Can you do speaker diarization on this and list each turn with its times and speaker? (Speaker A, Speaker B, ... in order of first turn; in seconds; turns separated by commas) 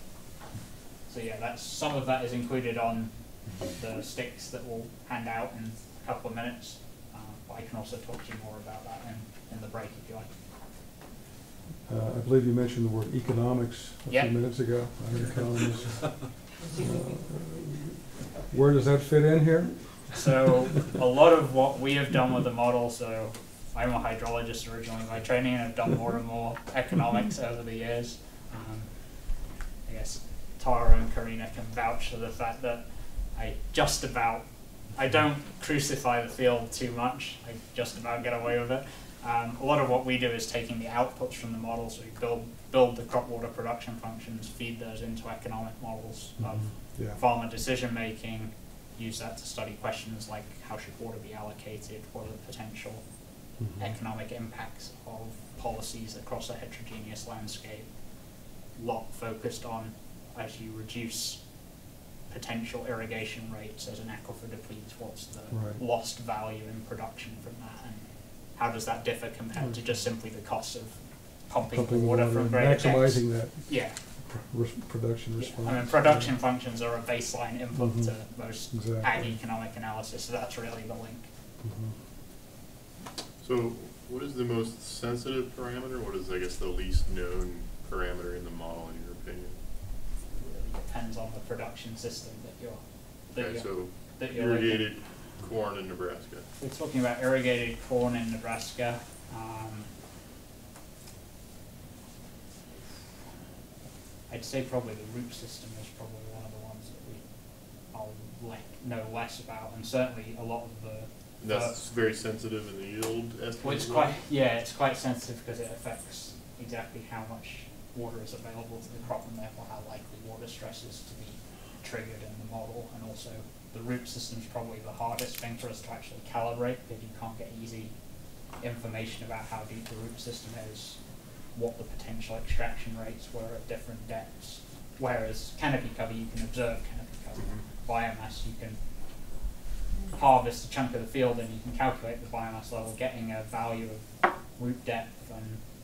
Speaker A: 1.1-10.3, Speaker B: 11.8-20.2, Speaker A: 14.1-14.3, Speaker A: 20.1-28.9, Speaker A: 29.9-53.0, Speaker B: 46.4-47.2, Speaker B: 53.6-54.0, Speaker A: 53.8-57.9, Speaker A: 58.8-61.4, Speaker A: 62.3-74.0, Speaker B: 65.5-65.8, Speaker B: 71.7-76.3, Speaker A: 75.4-81.3, Speaker B: 77.7-78.2, Speaker B: 78.7-79.3, Speaker B: 81.6-82.0, Speaker C: 83.4-89.6, Speaker A: 90.3-94.9, Speaker C: 93.3-96.5, Speaker A: 96.6-99.9, Speaker A: 104.3-107.2, Speaker A: 107.9-111.7, Speaker C: 111.4-114.2, Speaker A: 113.6-127.9, Speaker A: 128.6-131.0, Speaker A: 131.5-138.8, Speaker A: 140.1-145.6